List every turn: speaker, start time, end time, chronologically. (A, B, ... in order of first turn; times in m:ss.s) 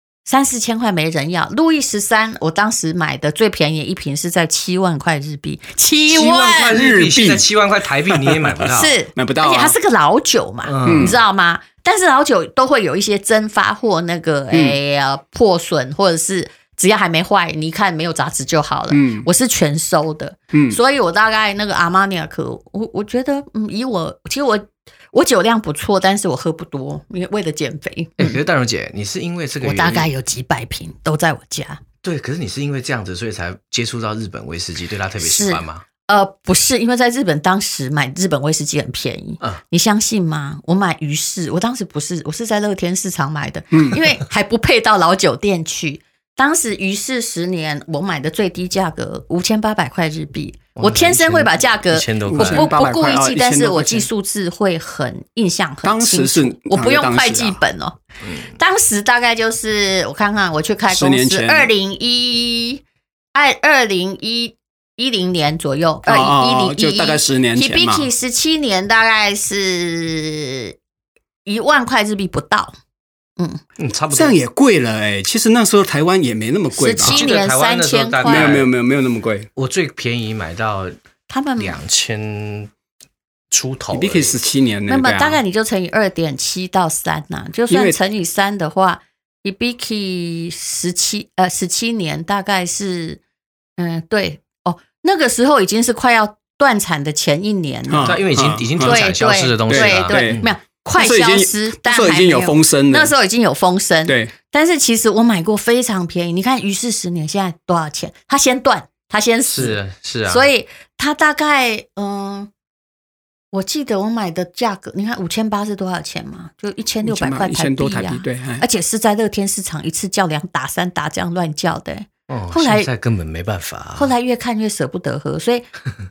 0:00.3-0:06.8 A
0:06.1-0:09.0 B
0:06.7-0:07.5 C
0:08.1-0:09.8 C
0:08.7-0:28.4 A
0:10.6-0:11.2 B
0:10.8-0:11.2 C
0:14.5-0:14.8 C
0:18.9-0:19.3 C
0:20.5-0:20.8 C
0:28.2-0:30.1 B
0:29.6-0:31.8 A
0:32.0-0:35.8 B
0:35.2-1:02.8 A
0:43.7-0:44.0 C
0:50.8-0:52.7 B
0:52.3-0:54.1 C
0:55.8-0:57.6 C
1:00.9-1:01.7 C
1:03.3-1:10.8 A
1:06.0-1:08.1 C
1:11.4-1:12.8 A
1:13.8-1:14.4 B
1:14.1-1:17.3 C
1:16.7-1:18.6 A
1:17.0-1:18.7 B
1:18.2-1:19.5 C
1:19.6-1:21.0 B
1:21.3-1:21.8 A
1:21.6-1:22.7 B
1:23.5-1:24.4 B
1:23.9-1:25.4 C
1:24.9-1:33.2 A
1:27.7-1:28.0 C
1:33.8-1:38.2 A
1:37.9-1:39.1 C
1:38.0-1:40.5 B
1:38.8-1:52.5 A
1:39.7-1:40.4 C
1:41.0-1:43.1 C
1:44.1-1:44.3 C
1:49.5-1:50.5 B
1:53.5-2:02.9 A
1:57.0-1:58.6 C
2:02.3-2:04.1 B
2:04.0-2:05.7 A